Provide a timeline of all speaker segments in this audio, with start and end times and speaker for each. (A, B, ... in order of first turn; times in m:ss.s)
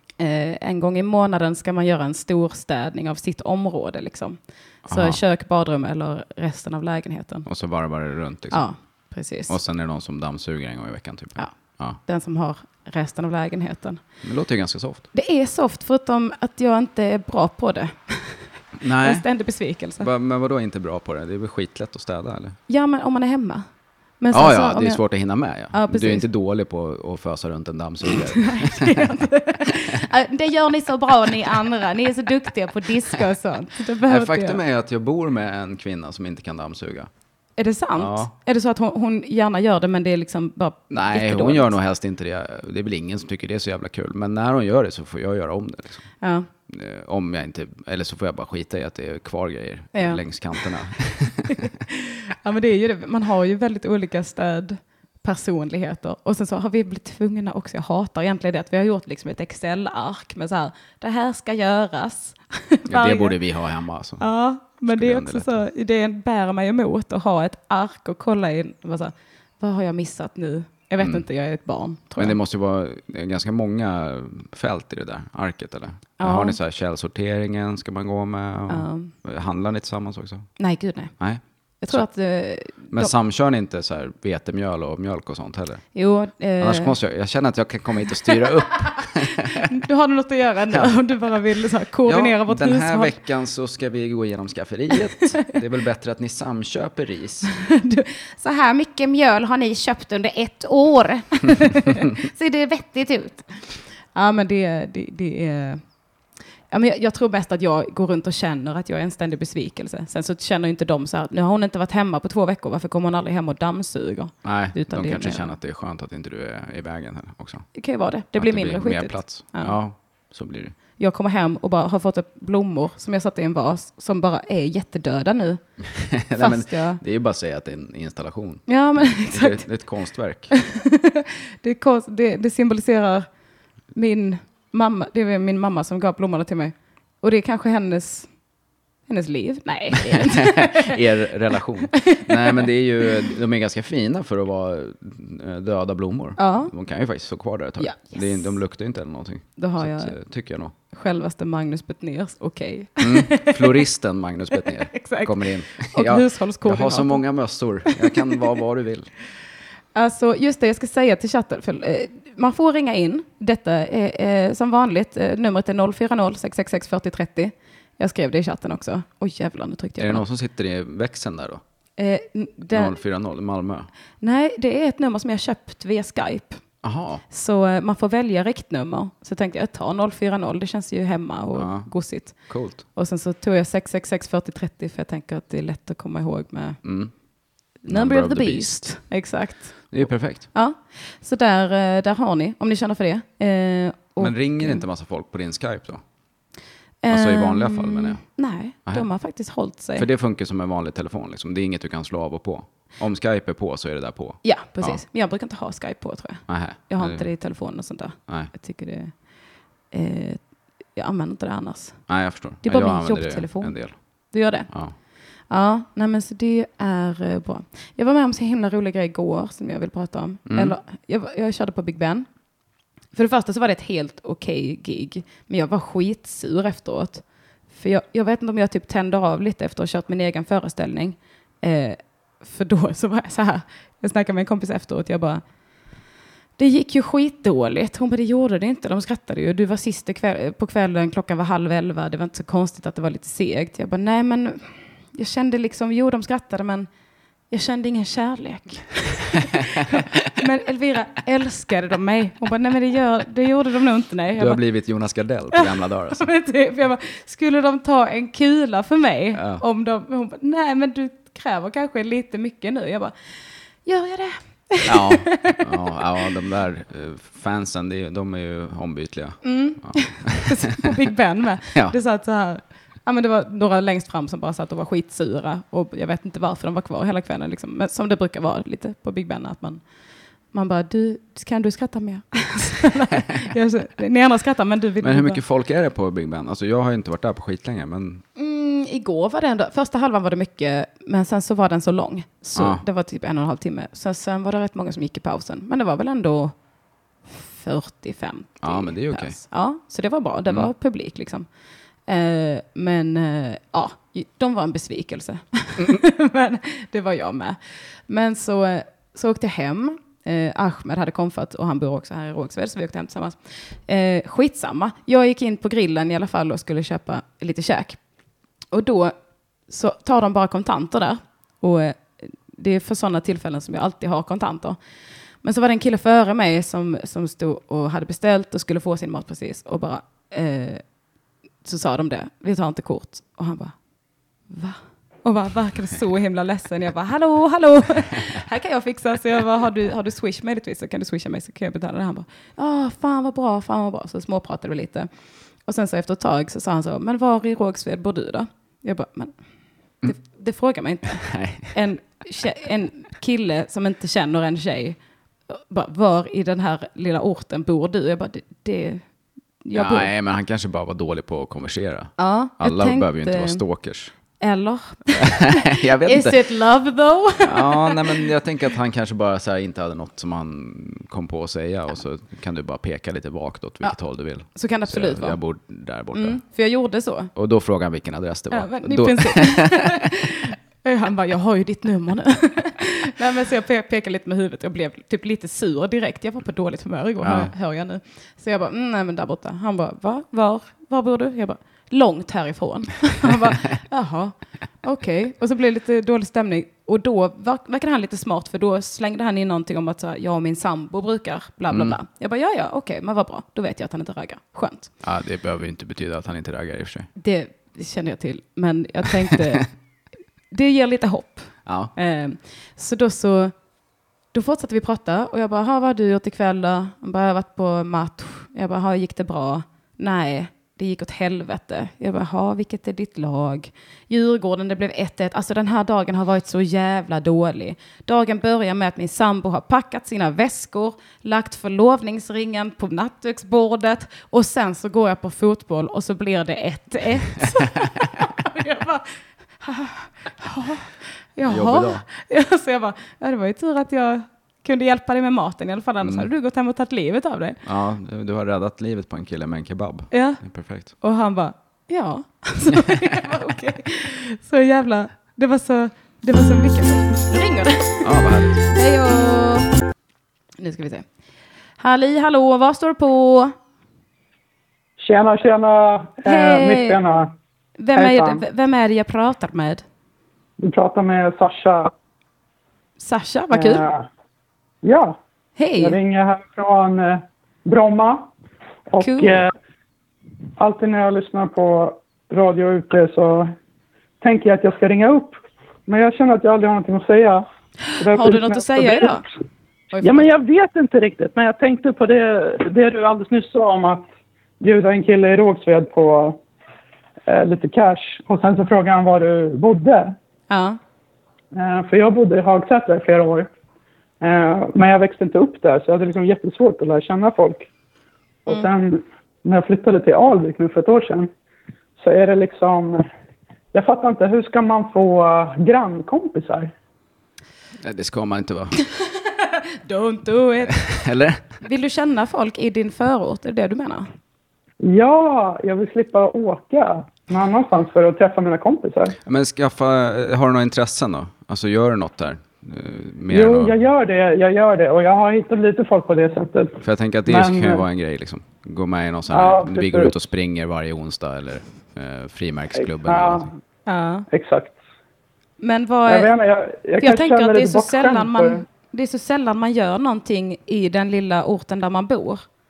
0:00.2-0:07.4 A
0:04.8-0:05.2 B
0:07.4-0:08.6 B
0:08.5-0:09.6 A
0:09.5-0:12.0 B
0:11.4-0:14.0 A
0:14.2-0:15.1 B
0:15.1-0:20.1 A
0:18.8-0:19.2 B
0:20.0-0:22.6 B
0:22.7-0:23.6 A
0:24.2-0:25.0 A
0:24.3-0:29.1 B
0:25.7-0:26.3 A
0:28.3-0:34.6 A
0:29.7-0:30.0 B
0:34.0-0:37.1 B
0:37.6-0:41.7 A
0:38.0-0:38.3 B
0:40.9-0:46.0 B
0:46.2-0:46.5 A
0:46.7-0:51.6 B
0:49.9-0:50.2 A
0:51.5-1:03.4 A
1:02.9-1:04.2 B
1:04.2-1:12.4 A
1:04.9-1:05.6 B
1:12.2-1:20.5 B
1:16.2-1:16.6 A
1:18.7-1:19.1 A
1:20.6-1:21.1 A
1:21.2-1:22.0 B
1:21.8-1:23.1 A
1:22.9-1:25.8 B
1:25.9-1:26.9 A
1:26.6-1:29.7 B
1:29.6-1:33.1 A
1:32.0-1:37.5 B
1:37.6-1:43.5 A
1:44.1-1:45.8 A
1:46.7-1:55.5 A
1:54.4-1:57.7 B
1:57.7-1:59.8 A
1:58.4-2:00.8 B
2:01.0-2:05.6 A
2:05.8-2:10.5 B
2:06.3-2:07.0 A
2:08.7-2:09.7 A
2:10.5-2:13.3 A
2:13.9-2:18.3 A
2:19.1-2:21.0 A
2:20.0-2:30.7 B
2:21.9-2:22.7 A
2:26.4-2:26.7 A
2:27.8-2:28.6 A
2:29.6-2:30.2 A
2:30.9-2:33.8 A
2:33.0-2:39.1 B
2:34.6-2:37.2 A
2:37.9-2:38.3 A
2:39.9-2:50.2 A
2:50.0-2:51.6 B
2:52.0-2:53.0 A
2:52.7-2:53.9 B
2:54.2-2:56.6 A
2:56.8-2:57.2 B
2:57.3-3:06.8 A
3:01.5-3:02.8 B
3:06.8-3:07.1 B
3:07.8-3:09.9 A
3:07.9-3:08.9 B
3:09.9-3:10.5 B
3:10.5-3:14.8 A
3:14.2-3:16.0 B
3:17.0-3:20.0 A
3:17.1-3:18.2 B
3:20.0-3:25.0 B
3:24.4-3:29.1 A
3:26.5-3:27.3 B
3:29.9-3:30.4 A
3:30.9-3:32.0 A
3:32.1-3:33.9 B
3:32.6-3:33.8 A
3:34.3-3:34.7 A
3:34.7-3:34.9 B
3:35.5-3:42.3 A
3:40.5-3:40.7 B
3:43.1-3:55.4 A
3:56.6-4:06.9 A
4:07.5-4:14.6 A
4:14.4-4:16.3 B
4:15.5-4:23.1 A
4:19.3-4:19.6 B
4:23.8-4:25.6 A
4:24.8-4:30.9 B
4:29.4-4:39.8 A
4:40.5-4:45.4 A
4:45.0-4:48.2 B
4:48.4-4:56.5 A
4:52.6-4:52.8 B
4:57.3-5:01.5 A
4:58.6-4:59.4 B
5:02.1-5:18.0 A
5:18.7-5:19.1 A
5:19.7-5:24.8 A
5:25.4-5:30.8 A
5:31.6-5:33.7 A
5:34.5-5:45.1 A
5:45.6-5:49.3 A
5:50.0-5:55.0 A
5:51.2-5:51.7 B
5:55.5-5:59.0 A
5:59.6-6:00.1 A
5:59.7-6:04.1 B
6:02.2-6:03.6 A
6:04.4-6:08.2 A
6:05.1-6:06.4 B
6:07.4-6:16.4 B
6:14.5-6:15.4 A
6:16.1-6:17.3 A
6:17.3-6:20.0 B
6:18.5-6:44.9 A
6:27.2-6:27.5 B
6:41.7-6:42.0 B
6:45.0-6:47.1 B
6:47.2-6:49.7 A
6:50.5-6:53.5 A
6:51.6-6:51.9 B
6:54.3-7:27.6 A
7:21.4-7:22.0 B
7:26.0-7:26.3 B
7:27.6-7:30.9 B
7:30.1-7:30.4 A
7:31.0-7:38.1 A
7:32.7-7:33.1 B
7:38.0-7:38.6 B
7:38.6-7:39.7 A
7:40.6-7:41.0 A
7:41.8-7:43.5 A
7:45.0-7:47.3 C
7:46.2-7:47.0 A
7:47.8-7:49.8 A
7:47.9-7:48.4 C
7:50.6-7:51.9 C
7:53.0-7:53.8 A
7:53.5-7:54.0 C
7:54.8-7:55.2 C
7:55.6-7:56.0 A
7:55.8-7:58.3 C
7:58.9-7:59.5 C
7:59.0-7:59.4 A
8:00.6-8:03.5 C
8:04.2-8:07.4 C
8:07.9-8:09.2 A
8:08.0-8:09.2 C
8:09.9-8:10.3 A
8:10.0-8:14.1 C
8:14.6-8:16.4 C
8:17.3-8:20.1 C
8:20.5-8:20.8 A
8:21.5-8:23.5 C
8:24.2-8:27.7 C
8:28.4-8:31.3 C
8:32.0-8:33.0 C
8:33.7-8:36.7 C
8:37.8-8:38.7 B
8:39.0-8:40.8 A
8:40.7-8:41.5 B
8:41.6-8:44.1 A
8:44.8-8:49.2 C
8:49.2-8:53.7 B
8:53.3-8:57.8 C
8:56.8-9:03.5 B
8:59.3-9:00.1 C
9:02.8-9:03.5 C
9:03.9-9:04.3 A
9:04.3-9:04.8 C
9:05.6-9:06.3 A
9:06.1-9:08.6 C
9:07.0-9:12.4 A